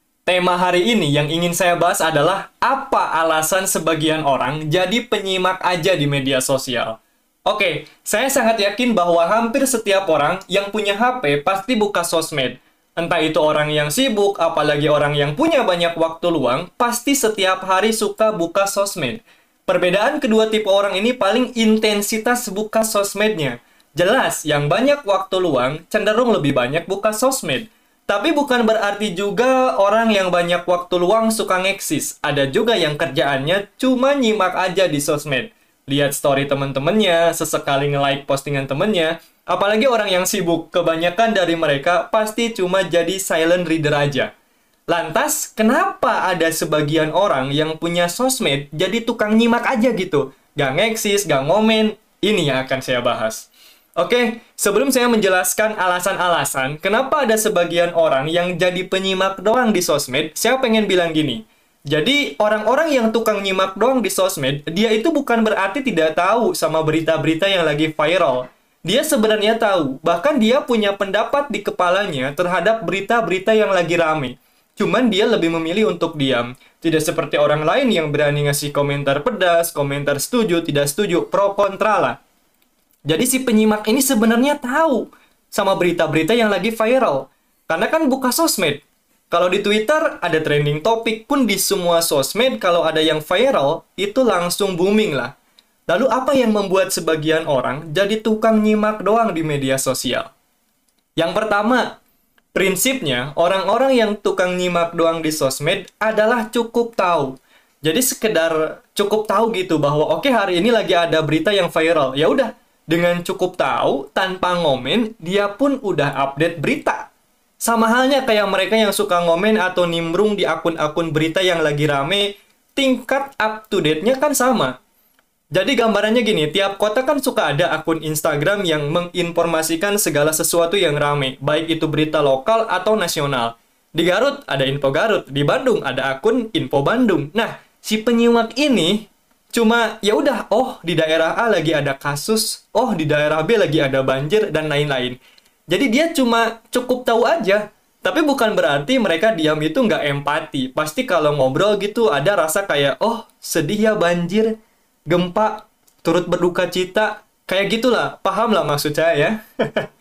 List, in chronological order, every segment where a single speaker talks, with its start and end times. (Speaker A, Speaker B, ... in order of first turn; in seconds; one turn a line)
Speaker A: 0.3-44.3
Speaker A: 44.9-82.2
Speaker A: 83.1-95.3
Speaker A: 95.9-100.3
Speaker A: 101.2-102.0
Speaker A: 102.5-117.1
Speaker A: 117.6-124.8
Speaker A: 125.5-154.6
Speaker A: 155.1-159.9